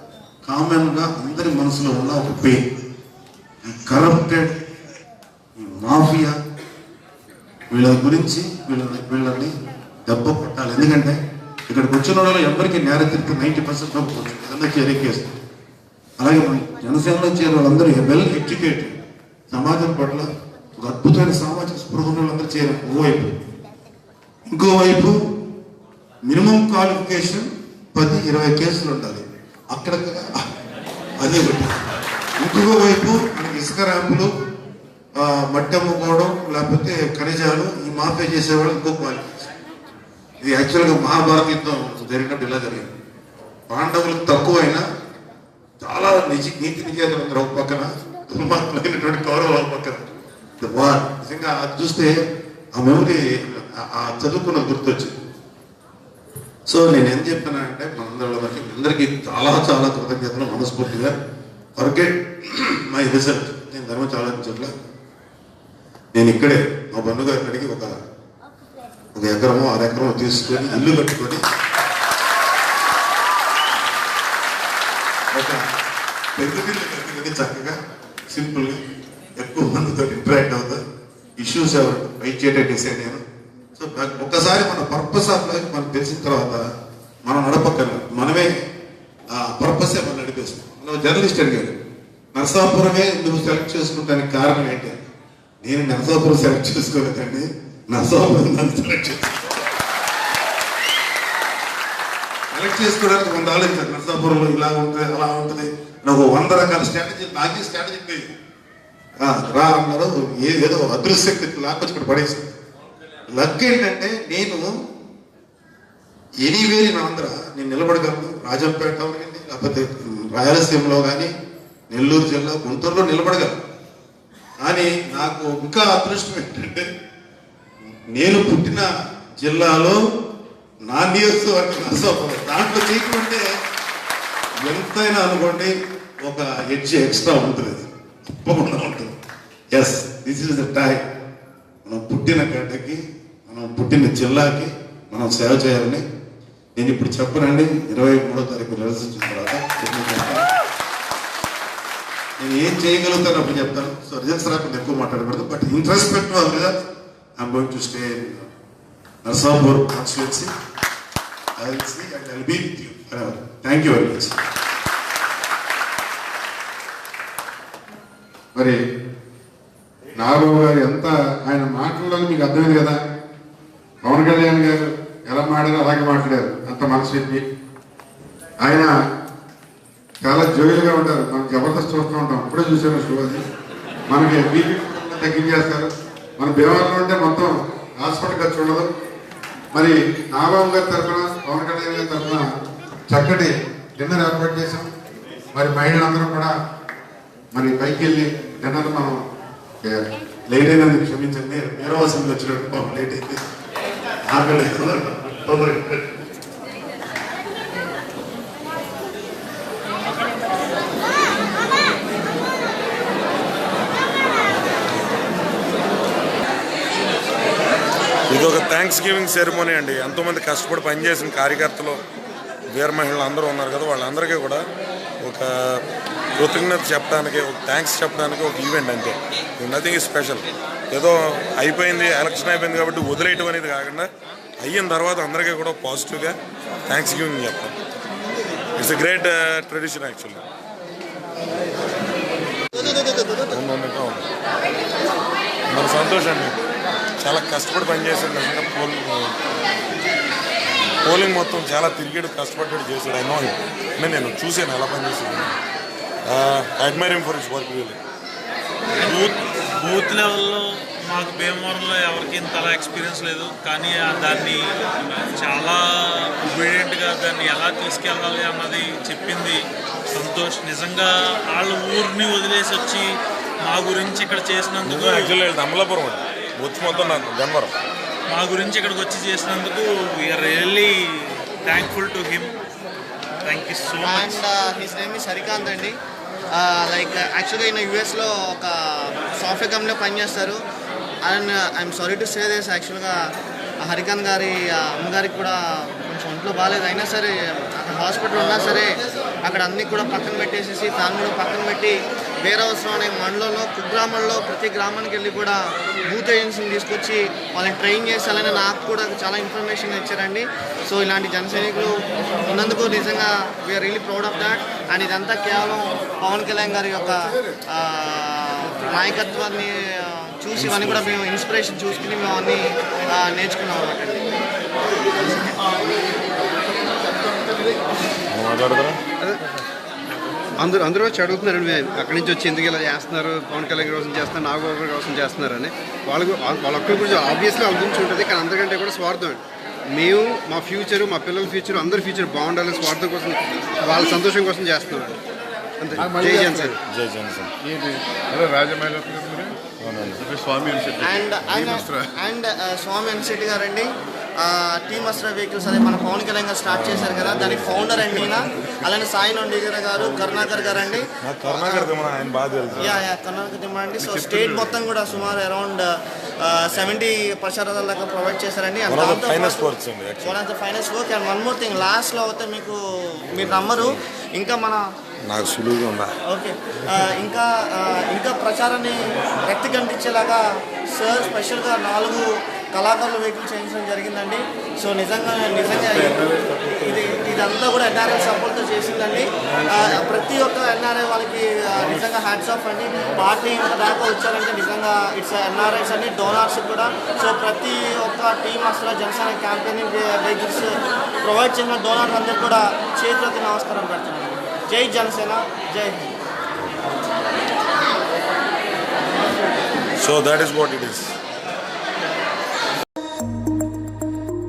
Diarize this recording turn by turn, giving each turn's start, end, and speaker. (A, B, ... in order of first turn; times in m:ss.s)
0:00.4-0:02.6 A
0:03.6-0:04.5 A
0:05.6-0:06.4 A
0:07.7-0:09.5 A
0:10.0-0:11.2 A
0:11.7-0:15.3 A
0:16.2-0:18.9 A
0:19.5-0:23.3 A
0:24.5-0:25.2 A
0:26.3-0:30.4 A
0:31.2-0:31.7 A
0:32.4-0:34.3 A
0:35.2-0:39.4 A
0:40.4-0:42.9 A
0:43.7-0:44.8 A
0:45.8-0:50.0 A
0:50.6-0:52.2 A
0:52.7-0:55.1 A
0:56.7-1:01.1 A
1:01.8-1:04.7 A
1:06.1-1:07.9 A
1:09.1-1:11.4 A
1:15.3-1:15.6 A
1:16.4-1:17.8 A
1:18.3-1:18.8 A
1:19.4-1:20.8 A
1:21.4-1:23.2 A
1:23.8-1:26.6 A
1:27.2-1:28.5 A
1:29.3-1:31.7 A
1:32.3-1:34.9 A
1:35.6-1:39.5 A
1:42.5-1:48.3 A
1:49.2-1:52.5 A
1:53.3-1:54.7 A
1:56.4-2:01.3 A
2:01.9-2:03.5 A
2:04.6-2:06.8 A
2:08.1-2:10.0 A
2:10.9-2:13.4 A
2:14.6-2:19.1 A
2:19.7-2:21.0 A
2:21.8-2:26.0 A
2:26.8-2:30.4 A
2:32.4-2:36.7 A
2:37.4-2:38.5 A
2:39.2-2:40.5 A
2:41.6-2:44.4 A
2:50.1-2:53.0 B
2:54.0-2:57.4 B
2:58.6-2:58.9 B
3:00.2-3:03.4 B
3:04.1-3:08.9 B
3:09.7-3:12.5 B
3:13.1-3:14.8 B
3:15.5-3:16.5 B
3:17.5-3:19.2 B
3:20.5-3:23.4 A
3:24.2-3:26.2 A
3:38.3-3:42.0 C
3:42.7-3:44.6 C
3:45.2-3:45.8 C
3:46.4-3:54.1 C
3:54.6-3:56.4 C
3:56.9-3:57.7 C
3:58.8-4:00.4 C
4:03.5-4:04.2 C
4:05.7-4:06.5 C
4:07.2-4:09.3 C
4:11.0-4:15.5 C
4:16.3-4:18.0 C
4:19.0-4:24.7 D
4:25.3-4:29.6 D
4:30.1-4:33.1 D
4:33.6-4:35.3 D
4:34.8-4:37.7 C
4:38.3-4:42.5 D
4:43.4-4:44.4 D
4:44.0-4:46.0 E
4:46.5-4:50.6 E
4:51.2-4:53.2 E
4:53.8-5:24.2 E
5:20.6-5:21.1 C
5:25.2-5:25.5 E
5:28.3-5:29.0 C
5:30.6-5:45.2 F
5:45.8-5:46.7 F
5:46.0-5:46.8 G
5:46.2-5:46.7 E
5:46.8-5:47.5 C
5:47.6-5:49.5 G
5:49.8-5:50.2 C
5:50.2-5:52.1 G
5:51.0-5:53.9 E
5:54.4-6:01.9 E
5:56.7-5:58.2 C
6:01.2-6:03.0 C
6:02.7-6:05.8 E
6:04.0-6:04.7 G
6:05.1-6:05.4 C
6:06.4-6:12.8 E
6:08.9-6:10.4 C
6:13.3-6:14.8 E
6:13.3-6:14.0 C
6:15.3-6:16.2 C
6:16.2-6:26.2 E
6:26.8-6:40.7 E
6:41.2-6:46.1 E
6:50.0-6:51.2 C